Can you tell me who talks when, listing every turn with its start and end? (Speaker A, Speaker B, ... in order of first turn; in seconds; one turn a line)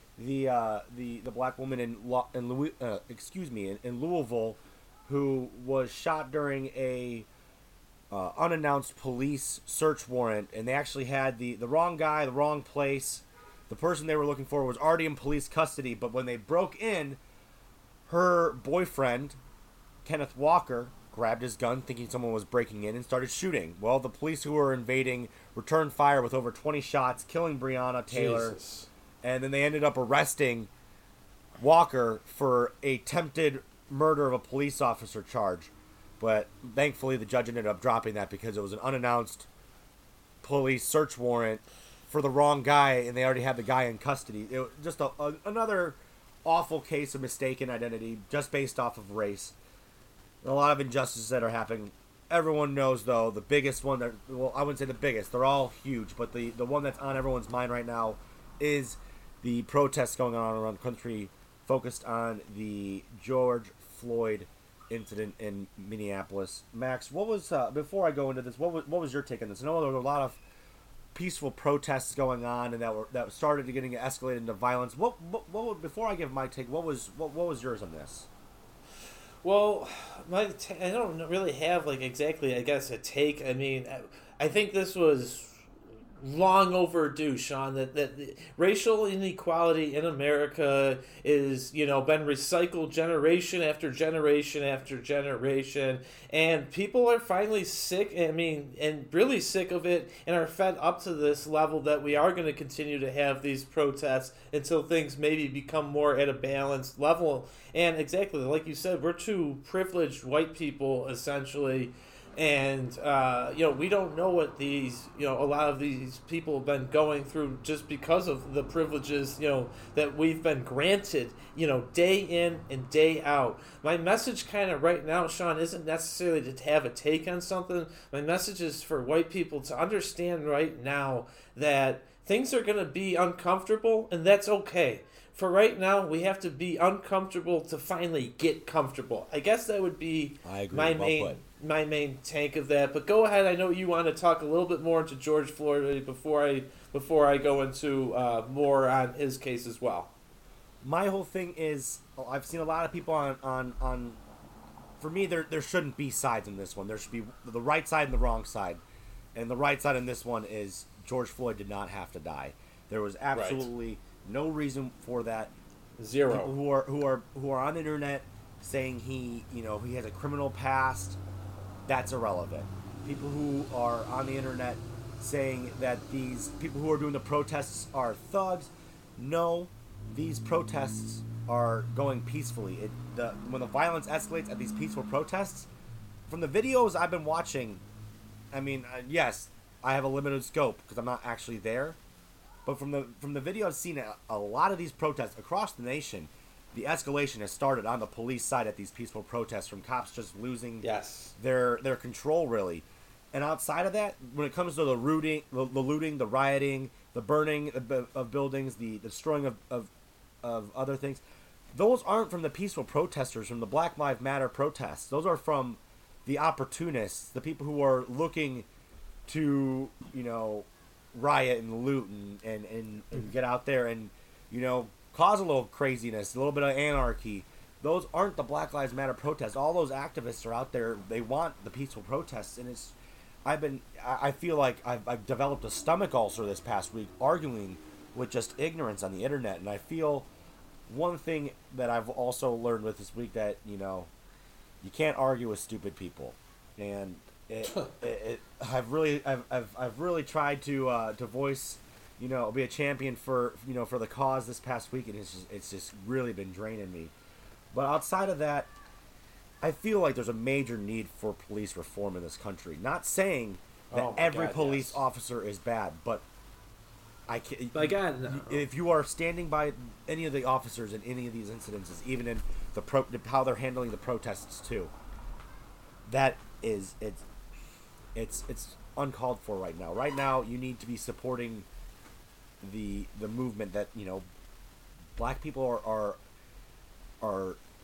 Speaker A: 0.2-7.3
Speaker A: 8.1-17.2
Speaker A: 18.1-19.4
Speaker A: 20.0-28.6
Speaker B: 28.1-28.9
Speaker A: 29.2-30.7
Speaker A: 31.6-39.5
Speaker A: 40.4-49.5
Speaker A: 50.4-70.4
Speaker A: 71.1-78.3
Speaker B: 79.4-85.6
Speaker B: 86.2-150.1
Speaker A: 140.4-141.4
Speaker A: 150.8-154.2
Speaker A: 155.0-158.8
Speaker A: 159.3-165.5
Speaker B: 163.3-163.7
Speaker B: 166.0-166.5
Speaker A: 166.3-171.2
Speaker A: 171.9-185.7
Speaker A: 186.3-187.8
Speaker A: 188.5-192.0
Speaker A: 192.7-209.9
Speaker B: 200.8-201.3
Speaker A: 210.4-218.7
Speaker A: 219.3-240.3
Speaker A: 240.9-244.1
Speaker A: 244.8-257.1
Speaker A: 257.7-258.7
Speaker A: 259.6-266.2
Speaker B: 263.9-265.0
Speaker A: 267.3-274.9
Speaker B: 267.7-268.7
Speaker A: 276.1-277.2
Speaker A: 278.1-281.7
Speaker A: 282.6-284.2
Speaker A: 285.1-286.2
Speaker A: 287.2-287.6